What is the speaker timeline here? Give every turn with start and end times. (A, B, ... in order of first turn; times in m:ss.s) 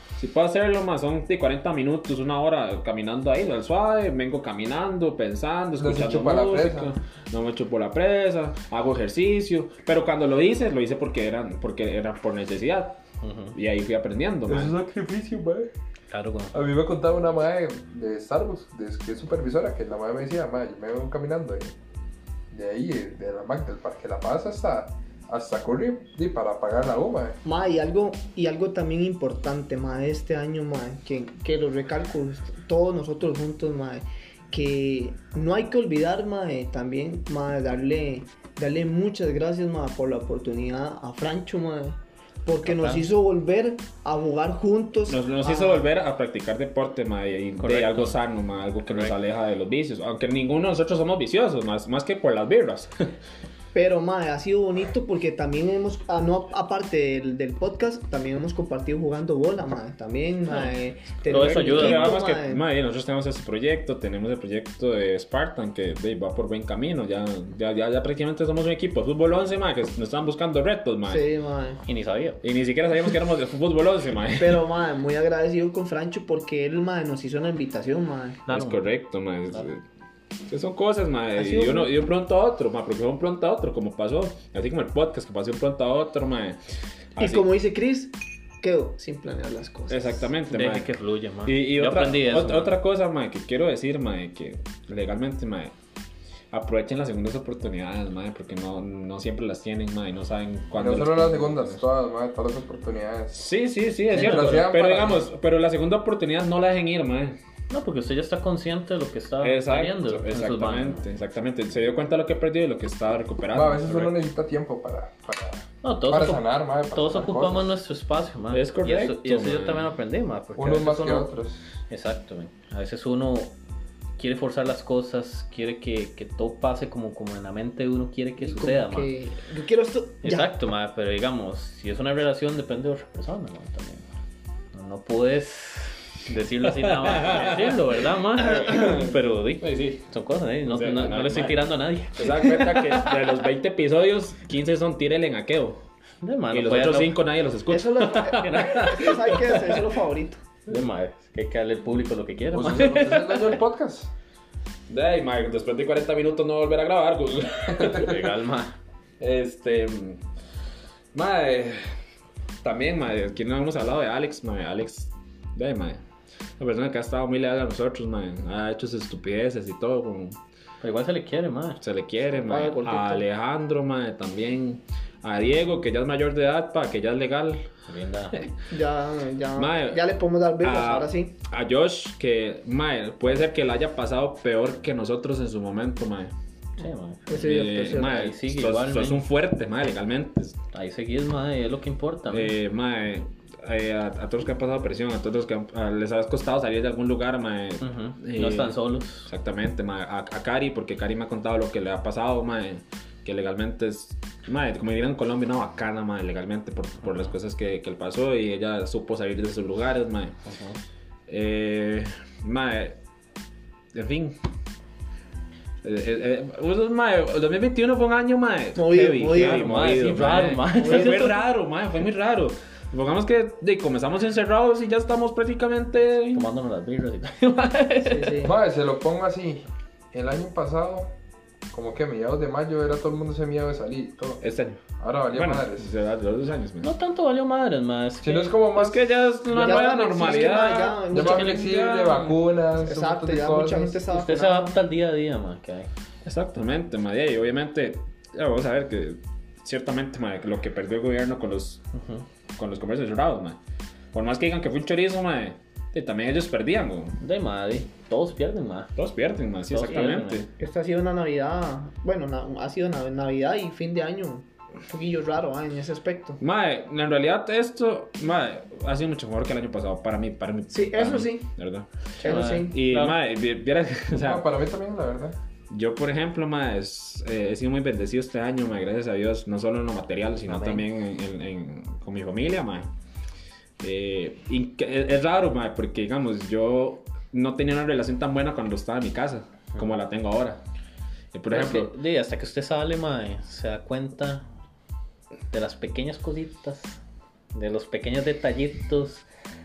0:00.2-0:13.0 A
0:05.8-0:06.9 B
0:13.2-0:13.5 C
0:13.5-0:14.8 A
0:14.5-0:15.7 B
0:16.1-0:16.6 C
0:16.5-0:21.7 B
0:22.5-0:27.4 B
0:27.4-0:45.9 D
0:42.6-0:43.1 C
0:45.1-0:53.0 A
0:47.6-0:48.2 C
0:48.9-0:49.1 C
0:53.7-1:02.6 D
1:01.3-1:02.2 C
1:01.3-1:11.3 A
1:11.0-1:11.8 D
1:11.8-1:12.4 C
1:12.4-1:14.6 A
1:14.4-1:18.4 D
1:18.5-1:18.9 C
1:18.5-1:19.8 A
1:20.5-1:26.6 A
1:21.4-1:21.9 D
1:27.1-1:27.5 A
1:27.2-1:30.2 D
1:29.9-1:30.9 A
1:30.5-1:32.7 C
1:31.4-1:35.7 A
1:36.5-1:41.8 A
1:40.7-1:43.4 B
1:43.3-1:47.4 A
1:44.1-1:45.3 B
1:47.7-1:51.0 C
1:49.4-1:54.1 A
1:53.5-1:57.7 B
1:55.8-2:01.3 C
1:58.5-1:59.9 A
2:00.6-2:01.6 B
2:01.9-2:03.5 C
2:04.2-2:09.1 C
2:08.4-2:10.5 D
2:10.2-2:14.0 C
2:14.7-2:23.1 C
2:17.0-2:17.7 A
2:18.4-2:20.0 A
2:20.6-2:25.8 A
2:26.2-2:27.1 C
2:26.5-2:29.8 A
2:27.7-2:30.4 D
2:28.4-2:29.0 C
2:30.7-2:33.6 C
2:32.5-2:34.1 B
2:34.9-2:38.3 A
2:37.8-2:38.7 C
2:39.2-2:40.2 A
2:41.1-2:41.9 A
2:42.6-2:46.0 A
2:46.6-2:50.4 A
2:50.8-2:51.8 C
2:51.8-2:57.7 A
2:52.4-2:53.3 D
2:57.9-2:58.4 C
2:58.7-3:01.3 D
2:59.5-3:06.3 A
3:06.8-3:09.2 C
3:07.3-3:08.2 D
3:07.3-3:10.6 A
3:10.7-3:12.5 C
3:12.3-3:30.3 A
3:17.8-3:19.3 C
3:30.4-3:30.8 C
3:31.3-3:33.0 A
3:33.9-3:34.4 A
3:35.8-3:46.4 A
3:38.8-3:39.8 D
3:39.3-3:41.4 C
3:40.8-3:41.3 D
3:46.3-3:48.5 C
3:48.0-3:48.5 D
3:48.4-3:51.1 B
3:51.7-3:54.4 B
3:54.4-3:54.8 A
3:55.0-3:55.9 B
3:55.3-3:56.9 A
3:56.8-3:58.5 C
3:58.2-4:00.5 B
3:58.7-4:02.3 A
3:59.6-4:01.7 D
4:01.1-4:04.0 B
4:02.8-4:04.8 D
4:04.1-4:05.9 C
4:06.2-4:11.8 A
4:11.9-4:12.2 C
4:12.6-4:13.6 A
4:14.1-4:17.2 A
4:17.2-4:18.9 C
4:19.0-4:20.5 A
4:19.7-4:20.5 C
4:20.6-4:26.4 D
4:26.4-4:34.4 A
4:30.7-4:31.5 D
4:32.2-4:32.8 D
4:32.2-4:33.2 C
4:34.2-4:35.4 B
4:35.7-4:42.9 A
4:40.5-4:40.8 C
4:43.8-4:50.6 A
4:51.3-4:51.9 A
4:51.5-4:54.4 C
4:55.5-4:57.0 C
4:57.5-4:59.2 C